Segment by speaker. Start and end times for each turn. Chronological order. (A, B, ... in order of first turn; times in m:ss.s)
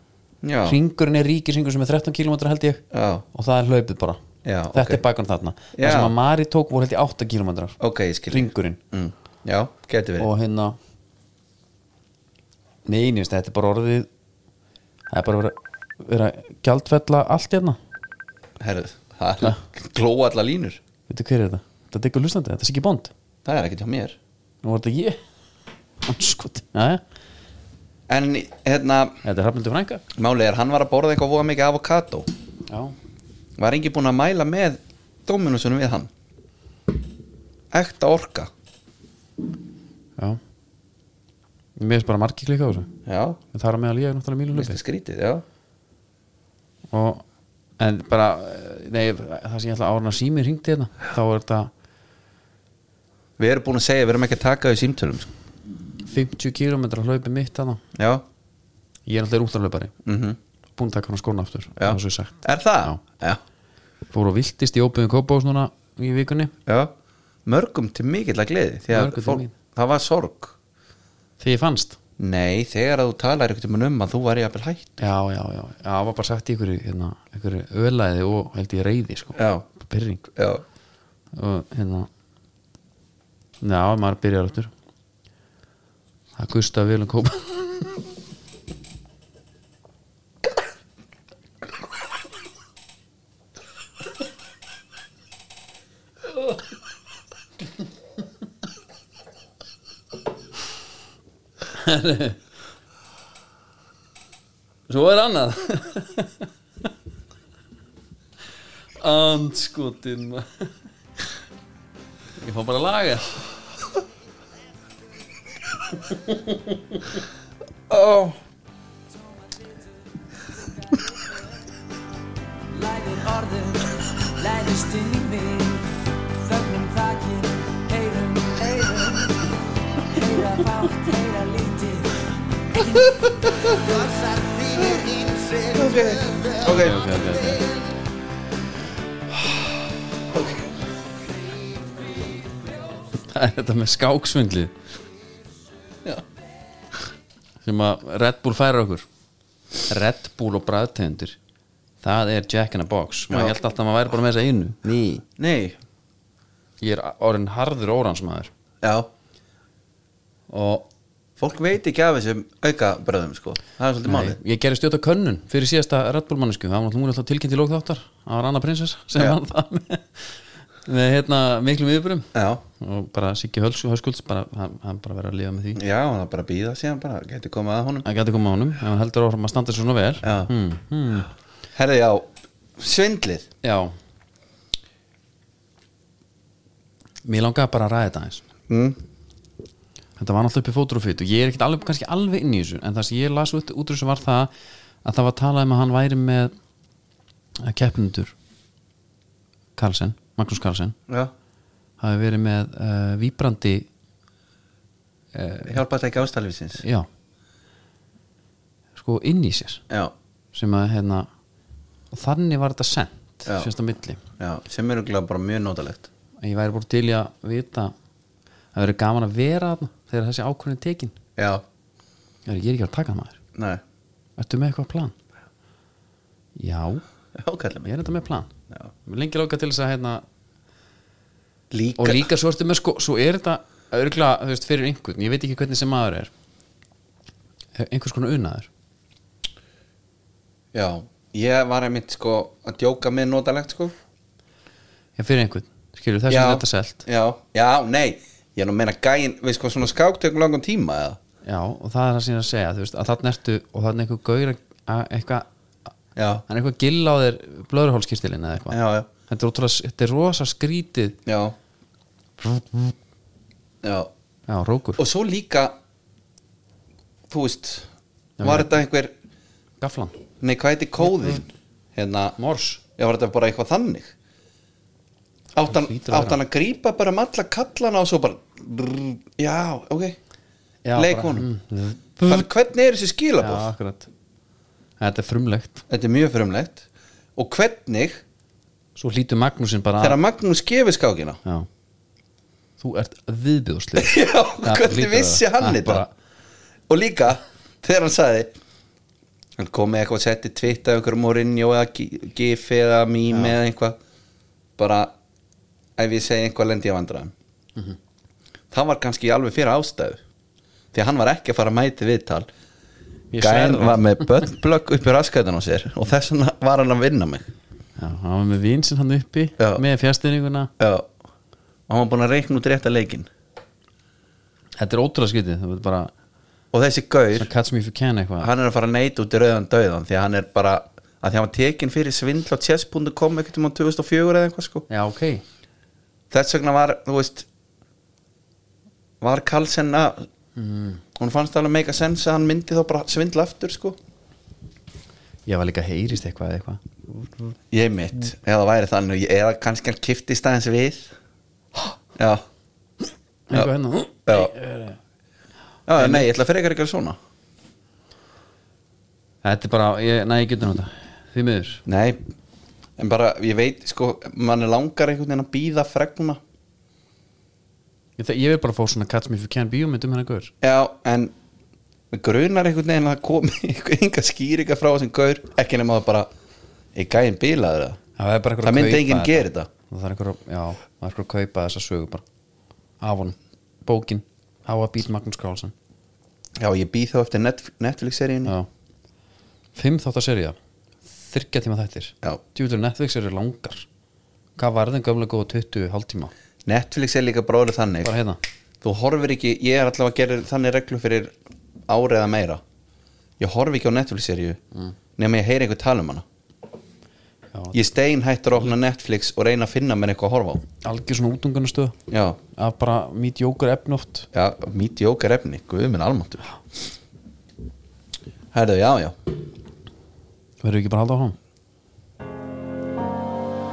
0:00.4-0:00.8 A
0:00.6-0:04.2 B
0:02.9-0:03.2 A
0:04.4-0:05.0 A
0:04.7-0:07.8 B
0:05.8-0:06.1 A
0:07.8-0:10.3 A
0:08.3-0:08.8 B
0:10.2-0:10.8 B
0:12.8-0:14.1 B
0:15.1-0:17.8 B
0:18.6-0:20.8 A
0:21.1-0:23.1 B
0:23.4-0:24.2 A
0:24.6-0:25.2 B
0:26.0-0:27.0 B
0:28.1-0:29.2 A
0:29.2-0:30.0 B
0:30.1-0:32.3 A
0:32.7-0:32.9 B
0:33.6-0:36.1 A
0:37.7-0:38.5 A
0:41.8-0:42.9 B
0:43.0-0:43.4 A
0:43.5-0:44.8 B
0:44.5-0:45.4 A
0:46.9-0:47.2 B
0:47.8-0:51.7 B
0:53.4-0:55.3 A
0:56.0-0:57.8 B
0:57.9-0:58.2 A
0:59.1-0:59.9 B
1:00.0-1:00.4 A
1:00.8-1:03.0 B
1:01.8-1:03.4 A
1:04.1-1:06.5 B
1:06.6-1:06.9 A
1:07.4-1:10.6 A
1:08.9-1:09.5 B
1:11.4-1:12.0 B
1:12.2-1:15.1 A
1:15.0-1:20.3 B
1:19.4-1:19.6 A
1:20.4-1:20.6 A
1:21.3-1:22.1 B
1:23.6-1:24.7 B
1:26.4-1:28.0 B
1:41.7-1:42.4 B
1:44.9-1:46.5 B
1:49.0-1:50.7 B
1:52.4-1:53.4 B
1:56.1-1:57.2 B
1:57.9-1:58.4 A
2:02.7-2:16.5 C
2:13.4-2:13.7 A
2:15.7-2:17.0 A
2:16.6-2:17.7 B
2:20.3-2:20.7 A
2:23.2-2:24.7 B
2:27.6-2:29.0 B
2:29.9-2:31.4 B
2:32.0-2:35.2 B
2:33.3-2:33.5 A
2:35.4-2:35.8 A
2:36.8-2:38.5 B
2:38.8-2:39.1 A
2:40.5-2:40.9 B
2:41.4-2:44.4 A
2:44.0-2:55.8 B
2:52.3-2:52.6 A
2:55.8-2:58.0 A
2:58.0-3:01.3 B
3:00.2-3:00.5 A
3:01.7-3:03.5 A
3:03.6-3:03.9 B
3:07.2-3:08.4 B
3:08.7-3:09.0 A
3:10.2-3:14.5 B
3:15.0-3:16.5 B
3:17.6-3:18.3 B
3:19.8-3:21.0 B
3:22.0-3:23.9 B
3:25.3-3:25.8 B
3:25.6-3:26.8 A
3:26.8-3:27.1 B
3:28.9-3:29.8 B
3:30.5-3:31.3 B
3:32.1-3:34.2 B
3:33.4-3:33.7 A
3:34.4-3:36.1 A
3:36.4-3:37.9 B
3:38.7-3:41.2 B
3:41.4-3:41.6 A
3:42.4-3:43.4 B
3:43.5-3:43.8 A
3:44.4-3:45.1 B
3:46.6-3:47.0 B
3:47.4-3:47.9 A
3:47.8-3:48.5 B
3:49.0-3:50.2 B
3:51.7-3:52.3 A
3:52.0-3:56.3 B
3:57.7-3:58.7 B
4:00.7-4:03.9 A
4:05.2-4:07.0 B
4:06.3-4:11.2 A
4:11.4-4:15.5 B
4:16.2-4:16.4 A
4:16.5-4:21.2 B
4:18.7-4:19.1 A
4:21.2-4:21.6 A
4:22.4-4:22.9 B
4:23.8-4:24.1 A
4:24.5-4:25.0 B
4:25.0-4:25.8 A
4:27.3-4:27.9 A
4:28.4-4:28.7 B
4:28.4-4:29.1 A
4:29.8-4:30.2 B
4:30.4-4:32.4 A
4:32.4-4:32.8 B
4:32.9-4:34.1 A
4:35.5-4:40.2 A
4:35.6-4:36.4 B
4:40.8-4:42.5 B
4:40.9-4:41.5 A
4:42.2-4:43.7 A
4:43.4-4:44.1 B
4:45.0-4:45.8 B
4:45.9-4:46.8 A
4:47.4-4:48.2 A
4:49.0-4:50.2 B
4:50.0-4:51.4 A
4:52.8-4:56.1 B
4:53.9-4:56.0 A
4:56.9-4:58.5 A
4:59.6-5:04.0 A
5:04.8-5:05.1 A
5:06.0-5:07.3 A
5:08.7-5:10.2 A
5:10.9-5:12.5 A
5:13.3-5:14.0 B
5:13.4-5:17.5 A
5:18.0-5:20.7 B
5:20.8-5:21.1 A
5:21.9-5:23.3 A
5:24.8-5:26.1 B
5:26.7-5:27.5 A
5:27.4-5:28.5 B
5:28.4-5:34.8 A
5:34.9-5:35.4 B
5:36.3-5:37.5 A
5:39.2-5:40.3 A
5:40.6-5:41.0 B
5:41.2-5:44.0 A
5:45.5-5:46.8 B
5:47.7-5:51.1 A
5:52.1-5:52.4 A
5:53.5-5:55.0 B
5:54.3-5:54.5 A
5:55.9-5:57.2 A
5:56.0-5:56.3 B
5:59.4-6:01.8 B
6:01.8-6:02.2 A
6:03.0-6:06.4 A
6:08.2-6:10.5 B
6:10.6-6:11.3 A
6:12.1-6:16.3 A
6:16.9-6:18.0 A
6:18.2-6:22.2 B
6:18.6-6:19.7 A
6:23.0-6:25.7 B
6:26.6-6:28.5 A
6:29.7-6:30.6 B
6:31.1-6:33.8 B
6:34.6-6:36.3 B
6:36.6-6:38.1 A
6:38.0-6:38.4 B
6:38.8-6:41.3 A
6:41.9-6:42.6 A
6:43.4-6:44.6 A
6:45.2-6:46.2 A
6:47.5-6:47.8 B
6:47.7-6:50.6 A
6:50.8-6:52.0 B
6:52.1-6:52.4 A
6:52.5-6:54.3 B
6:54.3-6:56.5 A
6:58.5-6:59.2 A
7:00.6-7:01.4 B